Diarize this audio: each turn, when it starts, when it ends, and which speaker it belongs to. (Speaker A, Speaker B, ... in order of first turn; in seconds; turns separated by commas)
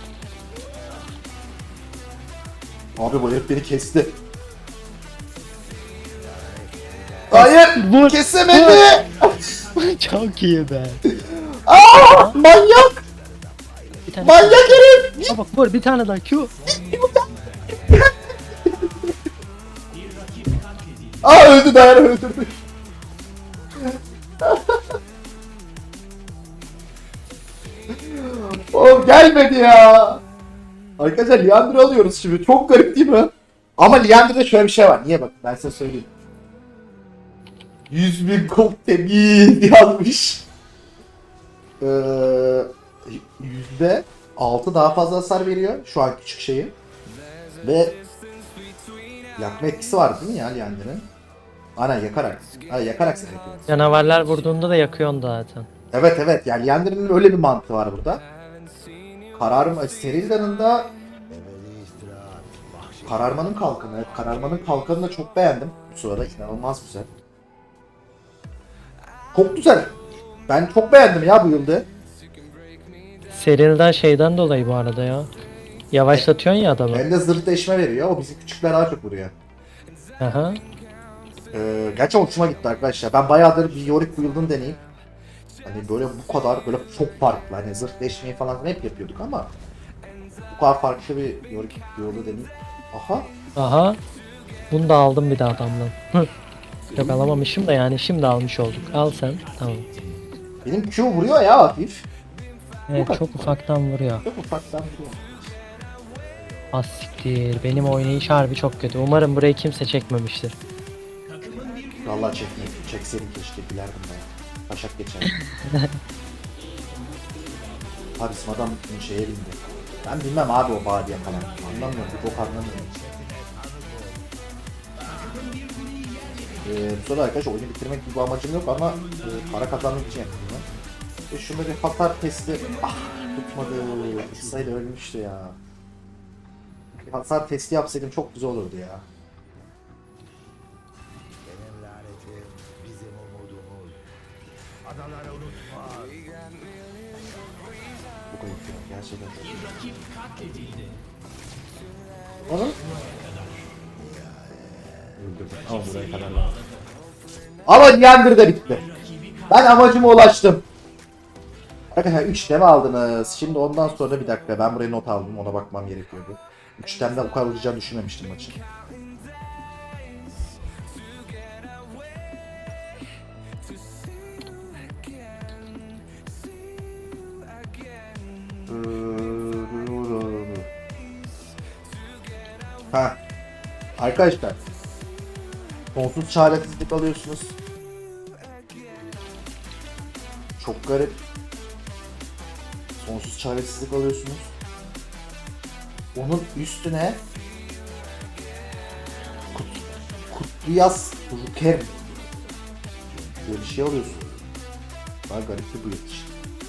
Speaker A: 3.0-4.2, Speaker B: 6.3-7.2, Speaker A: 7.3-9.6, Speaker C: 7.3-9.0, Speaker C: 9.7-11.0, Speaker A: 11.1-13.0, Speaker C: 12.0-12.4, Speaker B: 13.3-14.0, Speaker C: 14.1-16.6, Speaker A: 14.2-15.4, Speaker A: 16.9-17.2, Speaker A: 21.2-22.5, Speaker A: 24.4-24.8, Speaker A: 28.0-30.2, Speaker A: 31.0-36.1, Speaker A: 37.9-40.5, Speaker A: 41.8-46.8, Speaker A: 47.6-48.0, Speaker A: 49.4-51.1, Speaker A: 51.8-54.0, Speaker C: 53.7-55.7, Speaker A: 55.9-58.2, Speaker A: 59.4-60.9, Speaker B: 61.4-63.1, Speaker A: 63.0-67.1, Speaker A: 69.3-69.9, Speaker A: 70.5-71.9, Speaker C: 73.3-75.3, Speaker C: 75.9-77.1, Speaker A: 76.9-79.3, Speaker C: 80.2-80.6, Speaker A: 81.5-84.8, Speaker A: 85.7-89.5, Speaker A: 90.5-93.3, Speaker C: 93.6-94.0, Speaker C: 94.7-96.3, Speaker A: 96.9-97.3, Speaker C: 96.9-99.9, Speaker A: 100.7-102.1, Speaker C: 102.9-104.2, Speaker A: 103.0-103.5, Speaker A: 104.2-105.5, Speaker C: 106.7-110.6, Speaker A: 112.0-115.3, Speaker C: 115.3-116.0, Speaker A: 118.2-122.9, Speaker A: 126.6-130.7, Speaker A: 131.3-135.6, Speaker A: 137.1-139.1, Speaker B: 142.3-143.8, Speaker A: 148.3-149.8, Speaker A: 152.5-152.8, Speaker A: 155.2-156.6, Speaker A: 157.7-158.9, Speaker A: 159.5-160.7, Speaker A: 161.9-168.6, Speaker A: 178.7-180.7, Speaker A: 182.9-183.2, Speaker A: 184.0-184.6, Speaker A: 185.9-187.6, Speaker A: 190.6-191.2, Speaker A: 193.0-194.5, Speaker A: 196.2-197.2, Speaker A: 199.5-201.9, Speaker A: 203.5-204.2, Speaker A: 205.3-206.3